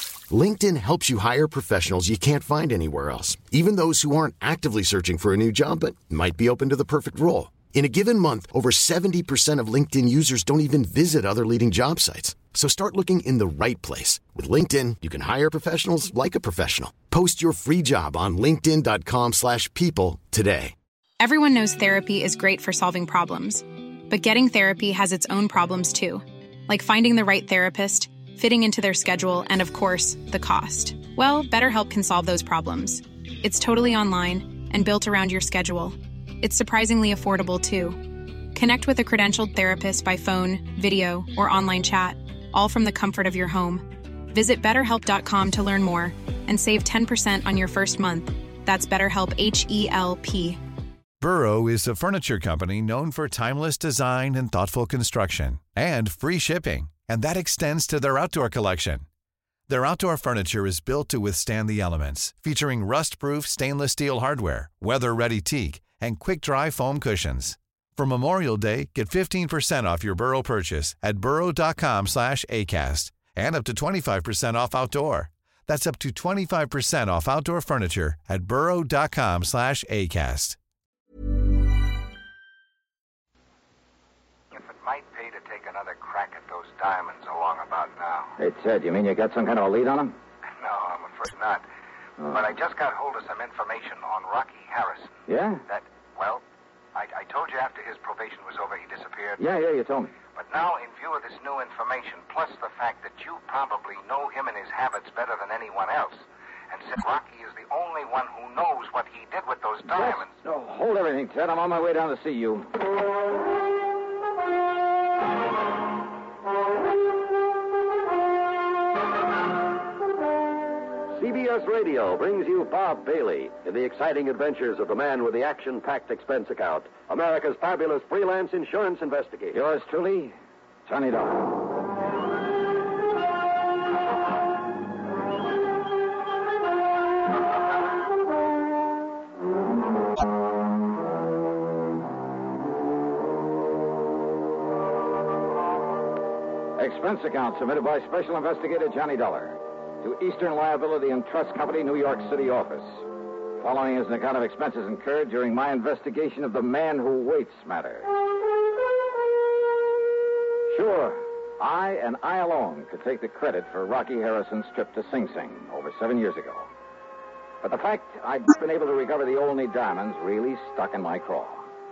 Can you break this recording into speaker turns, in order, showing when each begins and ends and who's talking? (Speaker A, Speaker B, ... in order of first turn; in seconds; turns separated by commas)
Speaker A: 0.3-20.8, Speaker B: 21.2-50.6, Speaker C: 51.2-59.0, Speaker C: 59.7-80.6, Speaker D: 84.5-88.3, Speaker E: 88.4-90.2, Speaker D: 90.6-91.7, Speaker D: 92.2-95.2, Speaker E: 95.3-95.6, Speaker D: 95.7-96.4, Speaker D: 97.0-99.4, Speaker E: 99.4-100.1, Speaker D: 100.3-110.3, Speaker E: 109.9-112.7, Speaker F: 121.2-129.6, Speaker E: 129.5-130.3, Speaker E: 130.9-131.6, Speaker E: 146.8-153.1, Speaker E: 153.6-158.1, Speaker E: 160.7-166.7, Speaker E: 167.6-171.6